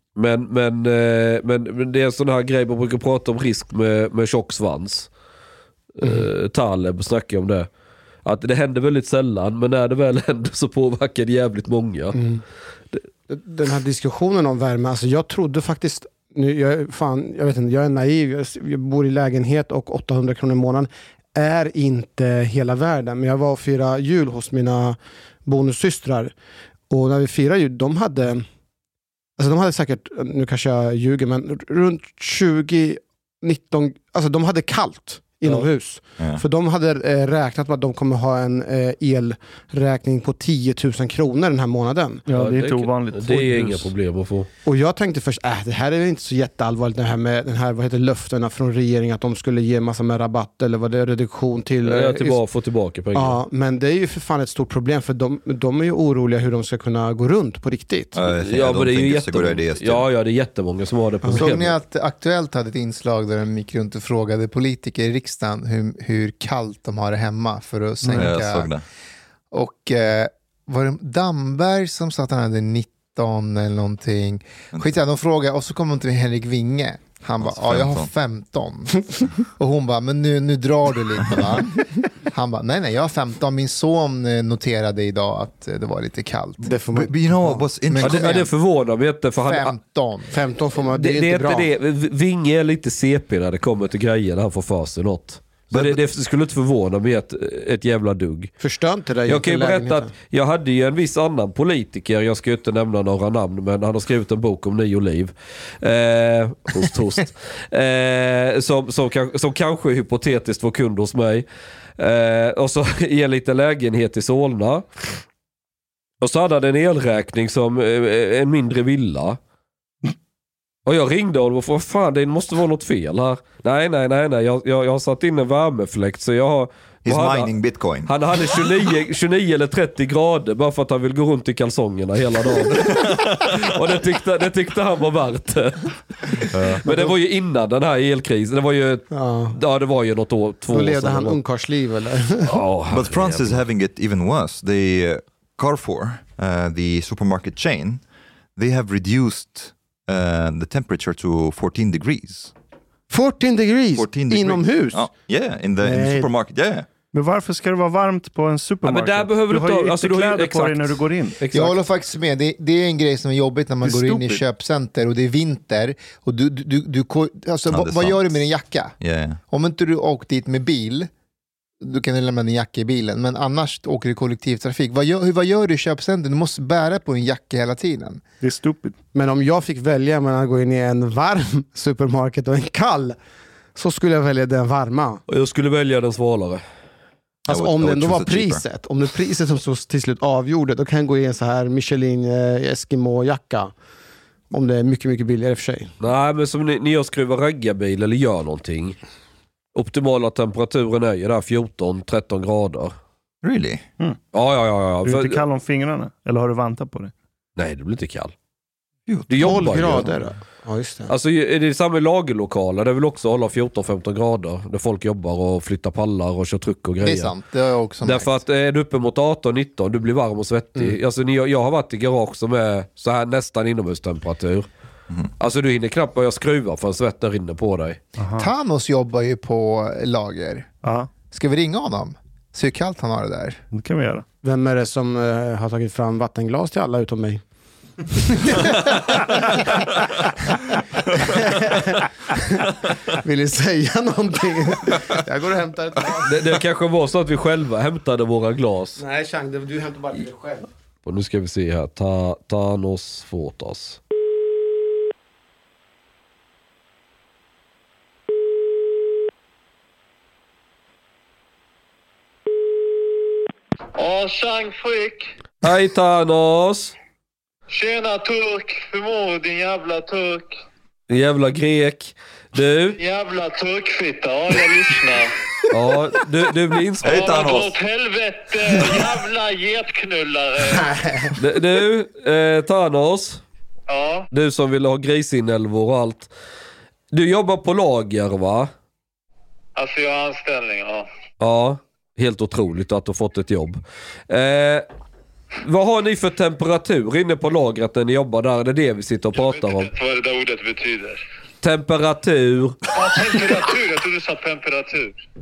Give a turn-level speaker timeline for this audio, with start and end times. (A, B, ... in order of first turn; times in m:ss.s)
0:00.2-0:05.1 A
0:06.0-0:07.7 A
0:08.2-0:12.2 A
0:12.1-0:12.4 B
0:13.3-0:26.3 B
0:26.9-0:28.4 B
0:29.4-0:42.2 B
0:36.2-0:36.4 C
0:42.2-0:43.9 D
0:42.3-0:44.5 A
0:44.6-0:52.4 B
0:51.8-0:53.4 A
0:53.1-0:58.2 B
0:58.1-1:00.1 C
0:58.3-1:01.8 A
1:01.4-1:08.7 E
1:08.1-1:08.8 C
1:09.5-1:26.8 E
1:17.4-1:18.1 C
1:26.6-1:27.6 B
1:26.9-1:28.4 C
1:27.8-1:28.5 E
1:28.0-1:29.7 A
1:29.4-1:30.4 E
1:30.3-1:31.7 B
1:30.9-1:38.5 A
1:35.7-1:36.0 C
1:38.6-1:40.1 B
1:39.2-1:51.4 A
1:52.0-1:54.8 A
1:56.2-1:59.4 A
2:00.8-2:07.5 A
2:07.0-2:08.1 C
2:08.0-2:21.4 A
2:16.8-2:17.1 B
2:19.1-2:19.6 B
2:20.7-2:22.6 B
2:22.4-2:23.6 A
2:22.9-2:28.0 C
2:28.6-2:32.5 C
2:33.1-2:35.1 B
2:33.9-2:36.9 C
2:35.8-2:36.3 B
2:37.1-2:41.4 D
2:38.8-2:41.8 A
2:41.5-2:49.0 E
2:43.8-2:44.4 D
2:47.7-2:48.4 C
2:49.0-2:49.4 C
2:49.5-2:51.1 E
2:51.8-2:58.2 E
2:58.4-2:59.0 D
2:59.1-3:03.2 B
3:03.7-3:05.2 B
3:05.3-3:06.6 A
3:07.4-3:13.7 B
3:07.5-3:08.6 C
3:14.5-3:15.9 B
3:16.0-3:19.0 A
3:19.7-3:22.9 A
3:23.4-3:23.9 C
3:24.3-3:25.4 A
3:25.0-3:27.1 D
3:27.6-3:28.3 A
3:29.1-3:29.8 C
3:29.3-3:30.1 A
3:29.3-3:31.1 B
3:31.1-3:37.3 A
3:37.0-3:38.4 E
3:38.0-3:44.7 A
3:45.4-3:48.0 A
3:48.2-3:48.5 D
3:48.4-3:50.7 E
3:50.8-3:51.1 D
3:51.3-3:53.6 E
3:53.7-3:54.2 D
3:54.4-3:57.4 B
3:58.2-3:59.9 B
4:00.5-4:06.6 B
4:06.2-4:09.0 A
4:09.0-4:10.7 B
4:11.0-4:14.0 A
4:23.9-4:25.3 F
4:25.6-4:26.9 A
4:27.7-4:30.6 F
4:31.1-4:33.0 A
4:33.0-4:35.3 F
4:35.7-4:37.3 A
4:37.0-4:37.7 C
4:37.0-4:40.9 F
4:40.7-4:41.3 B
4:41.4-4:43.4 A
4:43.9-4:44.3 F
4:44.3-4:46.3 A
4:47.1-4:48.7 A
4:49.8-4:51.1 F
4:51.4-4:54.9 A
4:55.6-4:59.9 A
4:59.3-5:01.2 F
5:01.6-5:02.8 A
5:02.9-5:05.1 F